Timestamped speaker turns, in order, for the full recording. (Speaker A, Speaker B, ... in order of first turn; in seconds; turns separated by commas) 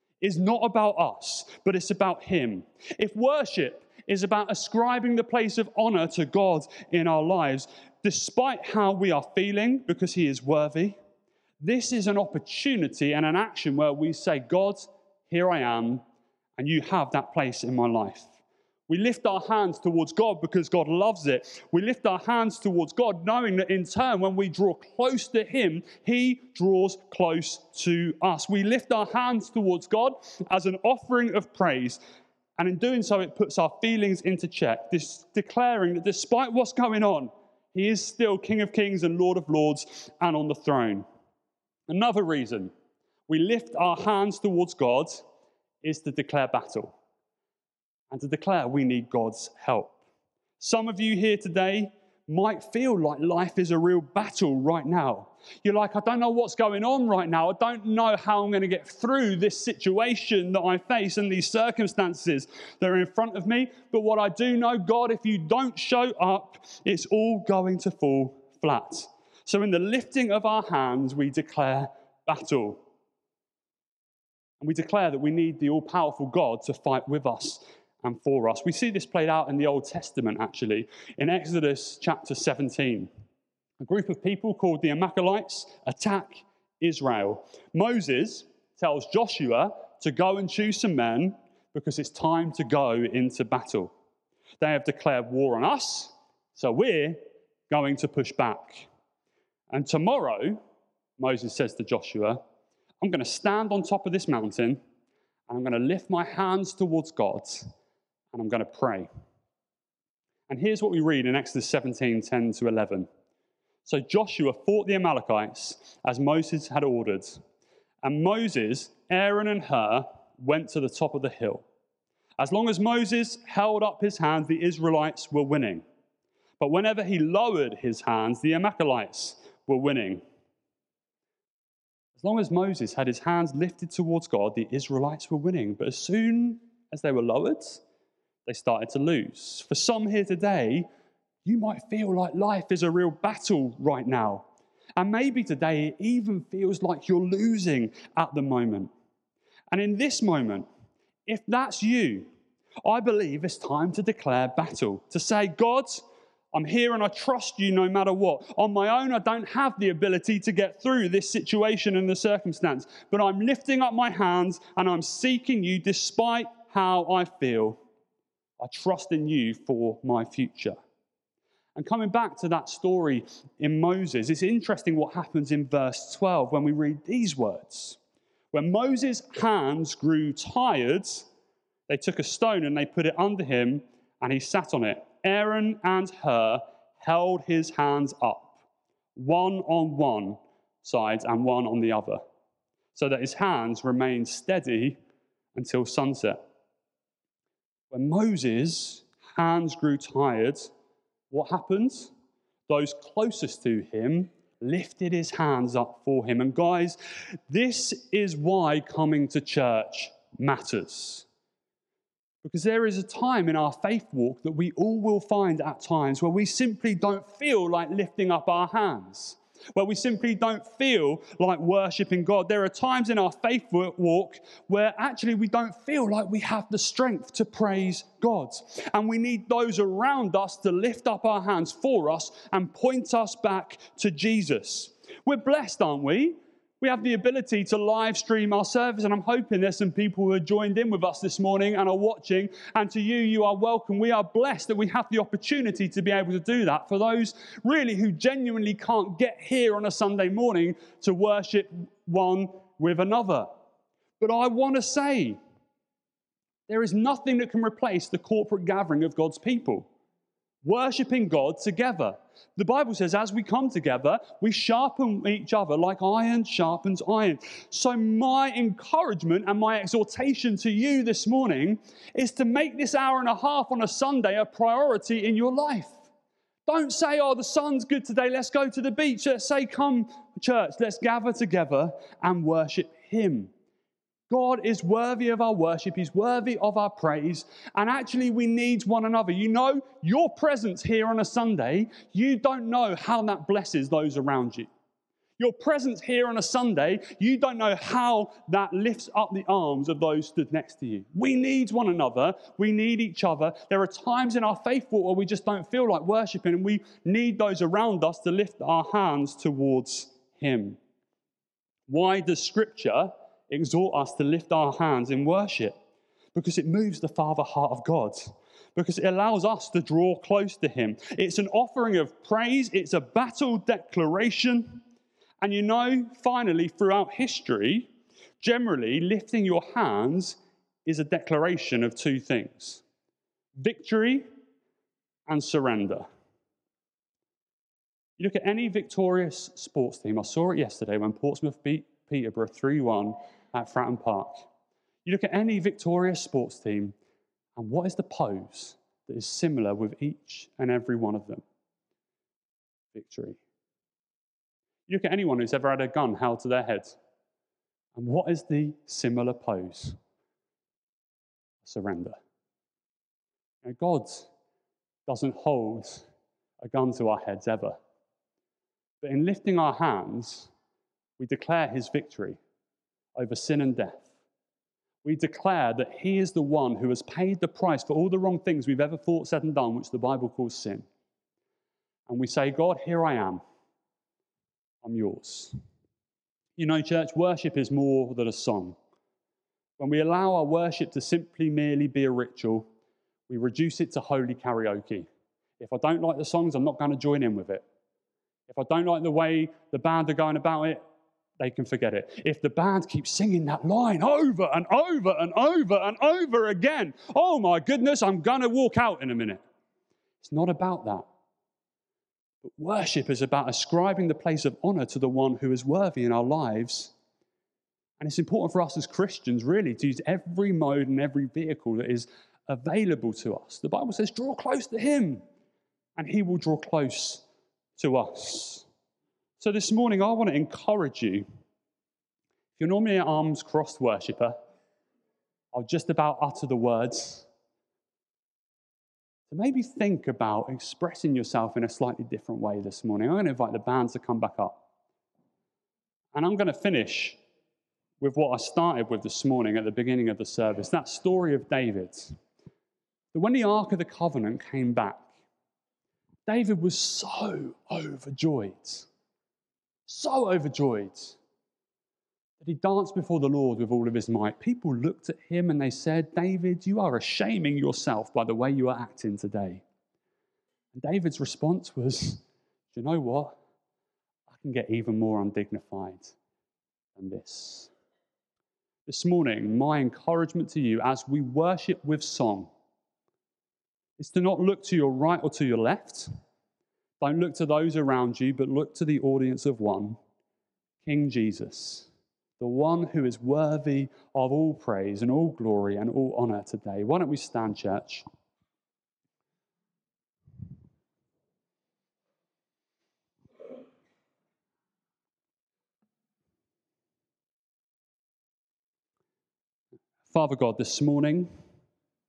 Speaker A: 0.2-11.0, Speaker A: 11.6-16.0, Speaker A: 16.6-18.4, Speaker A: 18.9-32.0, Speaker A: 32.6-41.0, Speaker A: 41.9-42.7, Speaker A: 43.3-45.2, Speaker A: 45.8-47.0, Speaker A: 48.1-50.0, Speaker A: 50.6-72.8, Speaker A: 74.6-83.1, Speaker A: 83.8-93.9, Speaker A: 94.6-98.9, Speaker A: 99.7-100.6, Speaker A: 101.2-102.4, Speaker A: 103.0-104.8, Speaker A: 105.5-107.7, Speaker A: 108.3-109.1, Speaker A: 110.5-113.1, Speaker A: 113.8-117.4, Speaker A: 118.0-121.7, Speaker A: 122.4-125.8, Speaker A: 126.6-130.2, Speaker A: 132.2-137.8, Speaker A: 138.5-140.9, Speaker A: 141.4-148.9, Speaker A: 149.7-150.7, Speaker A: 151.3-152.3, Speaker A: 152.8-167.8, Speaker A: 168.6-170.8, Speaker A: 171.8-178.0, Speaker A: 178.5-181.3, Speaker A: 181.9-188.6, Speaker A: 189.2-192.2, Speaker A: 192.9-195.0, Speaker A: 195.6-196.4, Speaker A: 197.9-200.7, Speaker A: 201.3-202.1, Speaker A: 202.7-207.0, Speaker A: 207.5-211.3, Speaker A: 212.4-253.5, Speaker A: 254.2-255.4, Speaker A: 256.7-259.9, Speaker A: 260.6-276.1, Speaker A: 276.7-283.5, Speaker A: 284.3-294.7, Speaker A: 295.4-310.8, Speaker A: 311.9-315.8, Speaker A: 316.4-324.8, Speaker A: 325.4-332.8, Speaker A: 333.6-334.3, Speaker A: 335.3-336.1, Speaker A: 338.2-344.5, Speaker A: 345.1-346.9, Speaker A: 347.6-351.4, Speaker A: 352.9-353.4, Speaker A: 354.9-357.0, Speaker A: 357.9-360.0, Speaker A: 361.6-362.2, Speaker A: 363.6-364.3, Speaker A: 365.1-366.1, Speaker A: 366.6-367.8, Speaker A: 369.0-370.5, Speaker A: 371.2-372.4, Speaker A: 373.2-374.1, Speaker A: 375.0-380.9, Speaker A: 382.1-383.4, Speaker A: 384.8-385.5, Speaker A: 386.6-388.8, Speaker A: 389.8-392.7, Speaker A: 393.3-395.1, Speaker A: 395.6-397.6, Speaker A: 398.5-400.8, Speaker A: 401.4-409.4, Speaker A: 410.2-411.1, Speaker A: 412.4-416.9, Speaker A: 418.0-425.2, Speaker A: 426.0-427.2, Speaker A: 427.8-428.7, Speaker A: 429.4-431.2, Speaker A: 432.6-434.4, Speaker A: 435.5-437.3, Speaker A: 439.3-444.6, Speaker A: 446.1-447.2, Speaker A: 448.0-452.1, Speaker A: 453.1-455.1, Speaker A: 456.3-458.9, Speaker A: 459.9-461.2, Speaker A: 462.4-469.6, Speaker A: 470.7-473.4, Speaker A: 474.3-476.2, Speaker A: 477.0-477.7, Speaker A: 478.9-482.5, Speaker A: 484.0-486.1, Speaker A: 487.0-490.0, Speaker A: 490.8-498.1, Speaker A: 510.1-511.3